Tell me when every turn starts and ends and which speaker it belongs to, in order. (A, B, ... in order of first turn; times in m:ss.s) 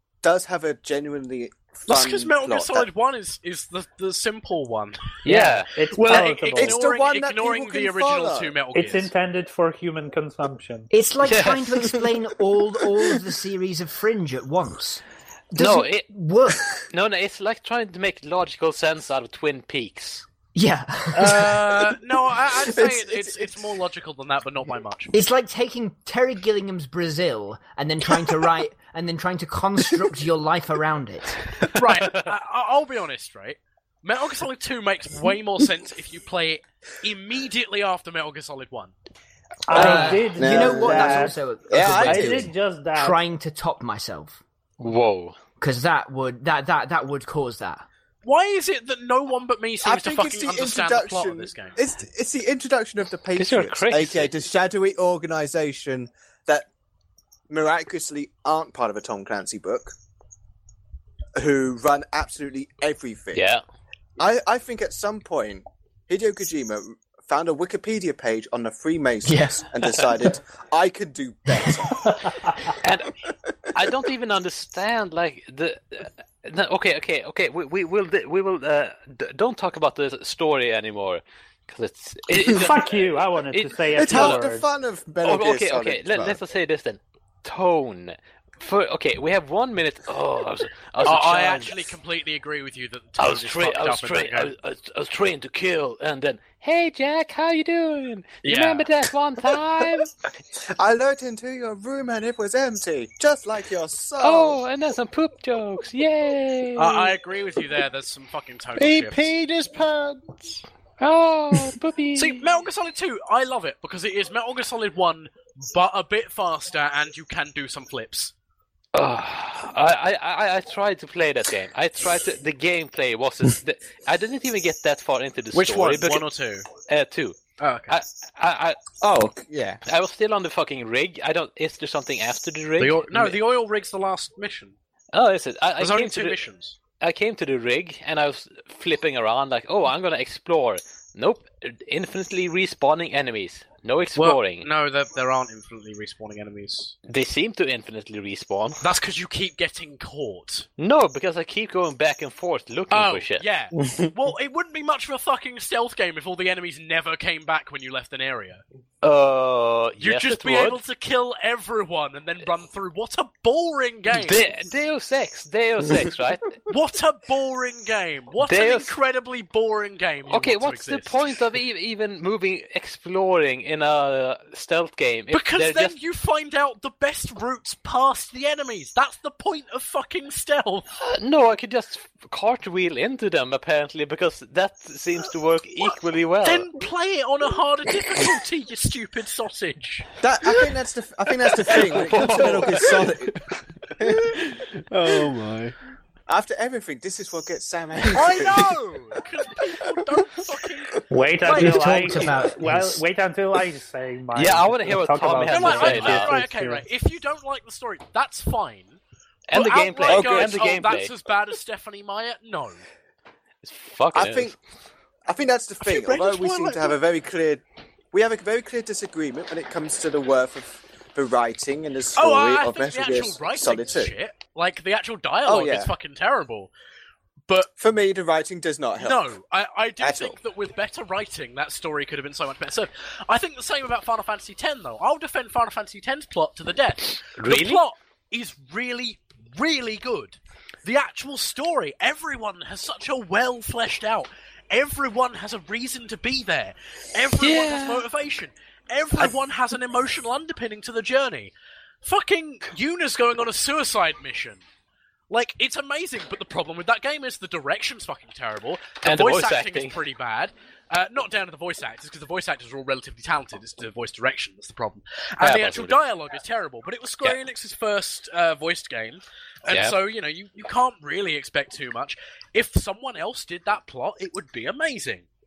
0:00.2-0:02.9 A
0:01.9-0:09.1 B
0:05.2-0:05.7 C
0:05.3-0:06.8 D
0:06.5-0:08.6 A
0:08.7-0:10.9 D
0:10.9-0:16.8 E
0:11.2-0:11.8 C
0:15.6-0:16.1 C
0:16.9-0:20.2 C
0:20.6-0:21.8 E
0:21.2-0:25.1 B
0:22.6-0:23.5 A
0:25.1-0:31.6 E
0:31.7-0:38.9 B
0:39.7-0:43.2 D
0:39.7-0:42.5 A
0:39.7-0:44.4 E
0:44.8-0:45.4 C
0:45.6-0:47.8 E
0:48.2-0:51.8 B
0:49.8-0:56.7 A
0:53.4-0:54.3 C
0:57.5-0:59.9 A
1:01.4-1:03.4 A
1:03.3-1:03.6 C
1:04.2-1:12.1 A
1:09.2-1:09.7 E
1:12.8-1:13.2 C
1:13.7-1:24.4 C
1:22.5-1:24.7 D
1:24.0-1:26.4 A
1:25.2-1:31.9 C
1:31.0-1:34.5 B
1:33.2-1:40.1 C
1:38.4-1:38.9 B
1:40.6-1:44.6 A
1:44.2-1:47.1 C
1:46.8-1:49.3 B
1:48.8-1:50.2 F
1:51.0-1:52.4 C
1:52.2-1:58.3 B
1:58.9-2:06.3 C
2:05.5-2:06.7 B
2:06.9-2:08.8 C
2:07.6-2:08.0 B
2:09.0-2:09.8 A
2:09.9-2:13.4 C
2:12.8-2:14.8 B
2:15.1-2:16.4 C
2:15.8-2:16.8 B
2:17.0-2:24.7 C
2:24.2-2:27.0 B
2:27.1-2:28.8 C
2:28.8-2:30.7 B
2:30.8-2:34.1 C
2:32.9-2:38.6 B
2:39.0-2:40.8 C
2:40.0-2:44.4 B
2:44.1-2:46.6 C
2:46.7-2:51.2 B
2:48.4-2:48.9 C
2:50.3-2:56.0 C
2:55.3-3:00.9 B
3:01.0-3:06.7 C
3:06.4-3:10.1 B
3:10.2-3:13.4 A
3:11.7-3:13.0 C
3:14.0-3:14.4 A
3:14.9-3:15.8 F
3:16.3-3:18.7 A
3:18.1-3:22.3 B
3:21.1-3:26.8 D
3:21.6-3:23.0 E
3:24.4-3:26.4 C
3:25.5-3:29.0 B
3:29.5-3:31.1 C
3:29.5-3:32.8 B
3:30.1-3:30.6 A
3:33.6-3:34.5 C
3:34.1-3:34.6 A
3:35.3-3:44.2 A
3:35.8-3:37.0 B
3:42.2-3:46.7 B
3:45.5-3:45.9 A
3:47.8-3:49.3 A
3:49.0-4:11.5 B
3:50.0-3:50.4 A
3:57.4-3:57.8 C
4:07.4-4:08.0 C
4:12.0-4:14.6 B
4:15.3-4:35.3 B
4:19.0-4:20.0 C
4:25.4-4:26.0 C
4:29.7-4:30.0 C